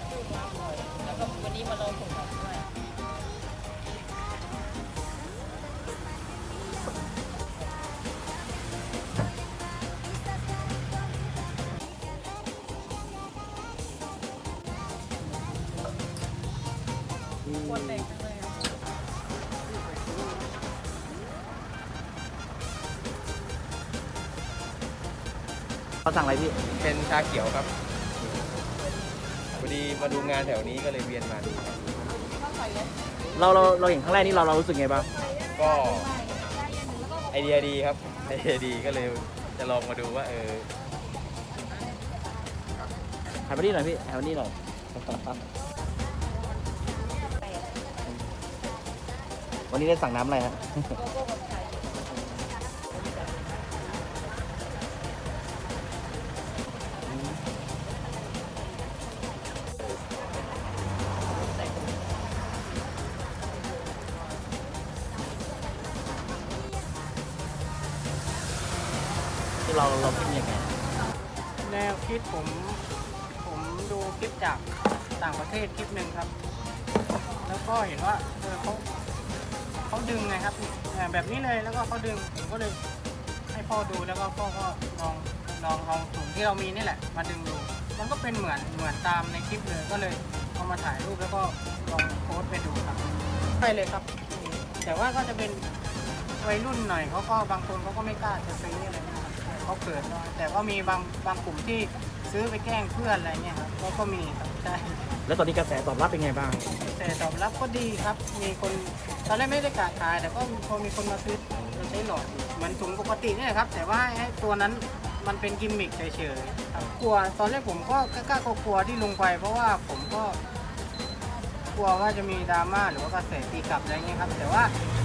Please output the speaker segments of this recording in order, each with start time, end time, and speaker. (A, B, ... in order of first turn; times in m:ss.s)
0:00.3-0:02.3 A
0:17.5-0:18.0 B
0:26.0-0:26.6 B
0:26.7-0:27.7 C
0:29.6-0:31.6 C
0:33.3-0:35.1 B
0:35.5-0:36.2 C
0:37.3-0:40.7 C
0:43.5-0:45.4 B
0:49.7-0:51.0 B
0:52.2-0:52.4 B
0:57.1-0:57.4 B
1:09.6-1:10.7 B
1:11.6-1:12.8 D
1:13.4-1:14.6 D
1:15.2-1:16.3 D
1:17.4-1:18.8 D
1:19.9-1:22.8 D
1:23.5-1:33.0 D
1:33.6-1:35.6 D
1:36.4-1:45.0 D
1:45.3-1:46.7 B
1:46.7-2:00.4 D
1:51.6-1:51.8 B
2:01.7-2:04.7 D